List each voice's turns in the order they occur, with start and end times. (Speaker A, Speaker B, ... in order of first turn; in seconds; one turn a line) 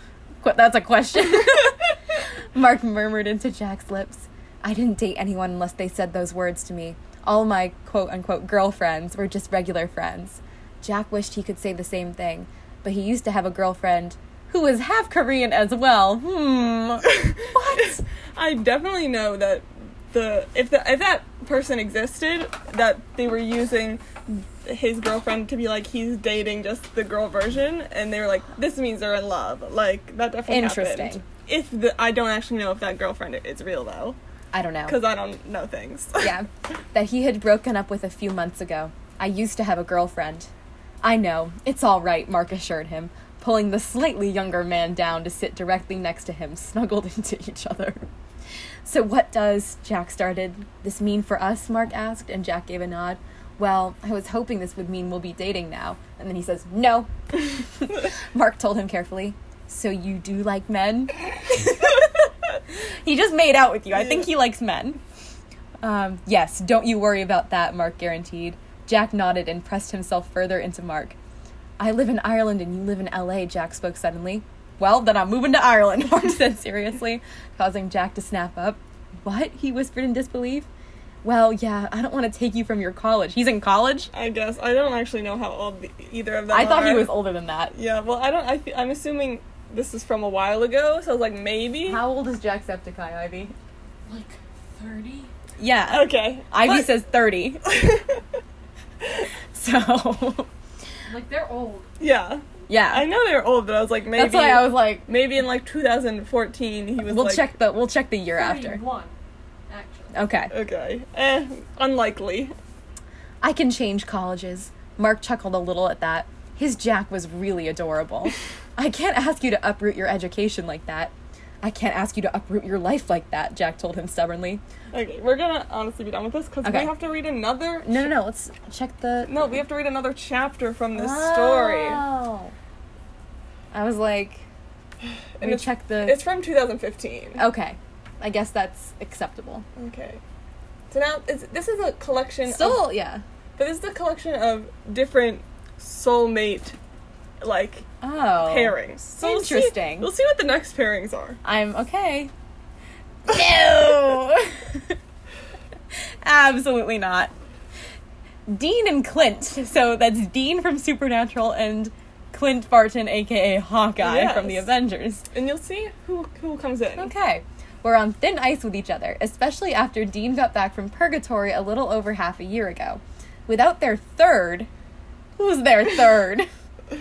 Speaker A: 0.4-18.0
Speaker B: 17.1-34.2
Speaker A: 30.5-31.2
Speaker A: 34.5-35.0
Speaker B: 34.9-36.3
Speaker A: 36.2-40.5
Speaker A: 41.0-48.0
Speaker A: 48.9-65.0
Speaker A: 65.8-71.2
Speaker A: 71.8-80.7
Speaker A: 81.2-84.1
Speaker B: 84.1-87.1
Speaker A: 86.5-87.7
Speaker B: 87.7-92.0
Speaker A: 91.9-93.5
Speaker C: 94.1-95.3
Speaker A: 95.6-97.7
Speaker B: 95.9-96.9
Speaker B: 97.7-98.2
Speaker A: 99.5-100.5
Speaker C: 101.1-101.9
Speaker B: 102.0-107.5
Speaker A: 102.7-103.1
Speaker A: 104.2-105.1
Speaker A: 107.0-108.8
Speaker C: 108.3-109.1
Speaker C: 109.7-110.1
Speaker A: 110.1-110.5
Speaker B: 110.5-112.5
Speaker A: 113.4-124.6
Speaker B: 124.9-128.1
Speaker A: 126.6-126.9
Speaker A: 127.8-129.3
Speaker B: 129.3-132.1
Speaker A: 130.9-132.5
Speaker A: 133.7-134.4
Speaker B: 135.4-137.4
Speaker A: 135.4-136.2
Speaker A: 137.4-139.7
Speaker B: 139.8-140.2
Speaker B: 140.9-142.8
Speaker A: 142.5-143.2
Speaker B: 143.6-146.8
Speaker B: 147.4-147.9
Speaker A: 148.0-150.1
Speaker B: 148.4-151.4
Speaker A: 151.4-152.3
Speaker A: 153.3-155.0
Speaker A: 156.2-157.3
Speaker A: 158.5-165.2
Speaker B: 164.0-164.7
Speaker B: 165.3-167.1
Speaker A: 167.0-174.7
Speaker A: 175.4-176.5